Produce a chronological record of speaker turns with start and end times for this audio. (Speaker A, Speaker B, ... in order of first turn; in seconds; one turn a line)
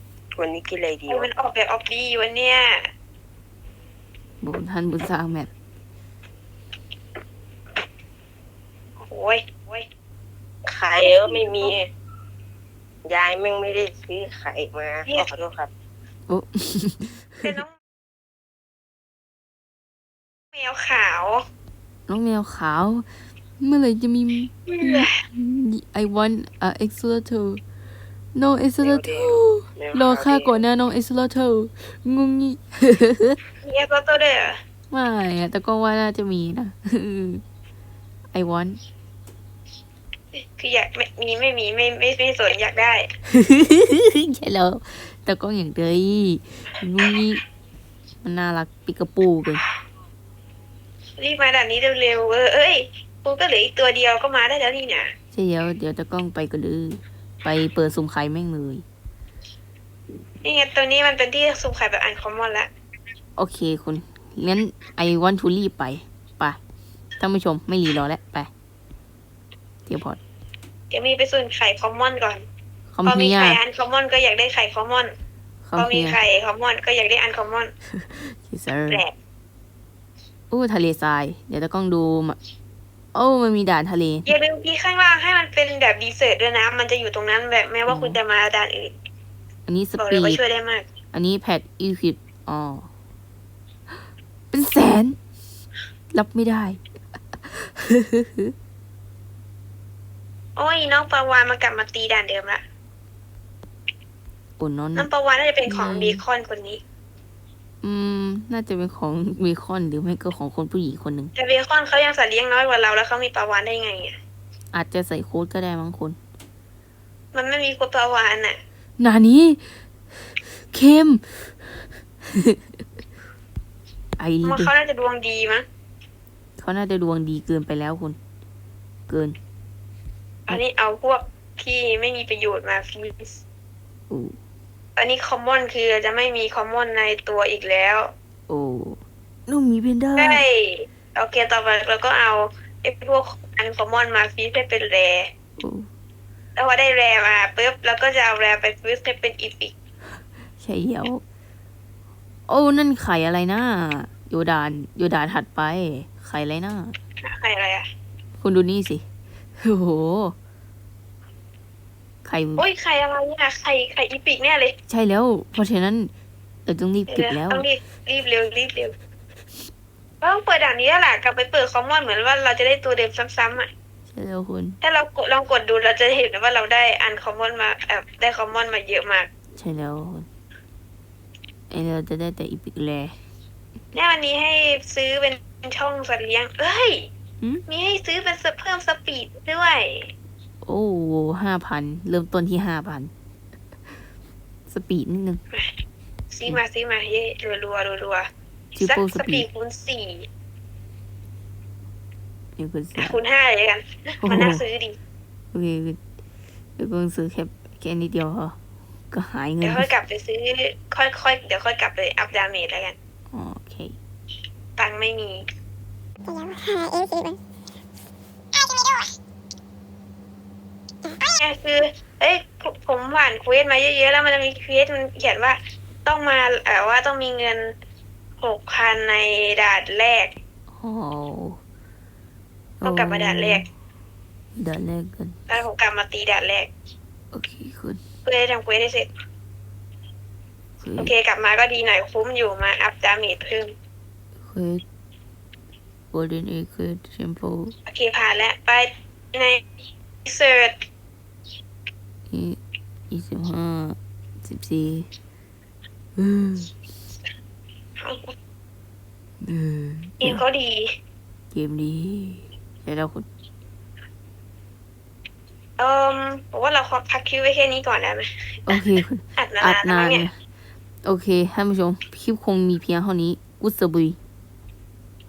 Speaker A: 0.4-1.3
Speaker B: 1.1-2.8
Speaker C: 4.4-5.5
Speaker B: 9.0-9.8
Speaker A: 10.7-11.9
Speaker B: 11.0-11.7
Speaker A: 13.0-15.7
Speaker C: 16.3-17.4
Speaker B: 17.4-17.7
Speaker B: 20.5-21.4
Speaker C: 22.1-23.1
Speaker C: 23.6-27.6
Speaker B: 24.7-25.2
Speaker C: 28.3-33.4
Speaker A: 28.8-30.5
Speaker B: 33.6-34.6
Speaker C: 34.9-37.4
Speaker C: 38.3-38.8
Speaker B: 40.4-43.1
Speaker C: 43.3-47.4
Speaker C: 48.2-49.6
Speaker B: 51.2-55.1
Speaker C: 55.3-58.8
Speaker B: 60.4-62.7
Speaker C: 63.4-66.6
Speaker C: 67.2-68.5
Speaker C: 69.8-70.2
Speaker B: 70.9-72.4
Speaker C: 72.9-73.6
Speaker B: 73.0-75.1
Speaker C: 75.6-76.2
Speaker B: 75.8-77.7
Speaker C: 77.9-79.0
Speaker C: 80.5-82.4
Speaker C: 83.1-84.3
Speaker B: 84.3-88.9
Speaker C: 87.9-88.2
Speaker C: 89.7-90.4
Speaker B: 90.0-90.9
Speaker C: 91.1-92.9
Speaker C: 94.5-95.2
Speaker C: 96.1-96.8
Speaker C: 97.3-98.5
Speaker B: 100.5-102.6
Speaker C: 104.6-105.1
Speaker B: 105.0-106.8
Speaker C: 105.7-106.2
Speaker C: 107.8-111.3
Speaker B: 111.3-114.2
Speaker C: 114.7-116.2
Speaker B: 117.3-118.6
Speaker C: 119.0-119.6
Speaker C: 120.6-122.8
Speaker C: 124.2-124.7
Speaker B: 124.4-125.7
Speaker C: 126.6-128.2
Speaker C: 129.1-129.4
Speaker B: 130.5-133.4
Speaker C: 134.1-134.3
Speaker B: 135.0-138.1
Speaker C: 138.5-140.4
Speaker B: 140.2-145.3
Speaker C: 145.6-145.9
Speaker B: 146.6-149.7
Speaker C: 150.6-151.2
Speaker C: 152.5-157.0
Speaker B: 157.2-157.9
Speaker C: 158.4-159.0
Speaker C: 159.6-160.3
Speaker C: 162.2-162.6
Speaker B: 162.6-164.7
Speaker C: 164.9-166.1
Speaker C: 166.7-167.7
Speaker B: 167.1-168.9
Speaker B: 170.2-173.7
Speaker C: 174.1-174.8
Speaker B: 174.8-179.3
Speaker C: 179.6-180.3
Speaker C: 181.7-183.2
Speaker B: 183.9-187.1
Speaker B: 187.7-190.1
Speaker C: 190.6-193.1
Speaker C: 194.7-195.4
Speaker B: 196.3-200.3
Speaker C: 198.7-199.4
Speaker C: 202.6-203.2
Speaker B: 203.0-205.0
Speaker C: 204.2-204.6
Speaker C: 205.5-206.0
Speaker C: 206.8-208.6
Speaker C: 209.1-209.9
Speaker B: 209.6-212.9
Speaker C: 213.3-213.9
Speaker B: 214.8-215.4
Speaker B: 221.2-227.7
Speaker B: 228.4-230.3
Speaker C: 230.7-231.6
Speaker C: 232.8-233.7
Speaker B: 232.8-233.6
Speaker C: 234.5-235.5
Speaker B: 235.5-236.7
Speaker C: 237.3-238.0
Speaker B: 238.2-239.1
Speaker C: 240.8-241.1
Speaker B: 241.0-243.7
Speaker C: 244.4-244.8
Speaker C: 246.1-247.7
Speaker B: 247.9-249.6
Speaker B: 250.2-250.8
Speaker C: 252.3-252.6
Speaker C: 253.1-255.1
Speaker C: 256.1-256.7
Speaker B: 258.0-258.3
Speaker C: 259.4-260.4
Speaker B: 260.2-260.9
Speaker C: 261.5-263.2
Speaker B: 265.8-268.8
Speaker C: 268.7-270.3
Speaker B: 269.4-270.2
Speaker C: 271.0-274.2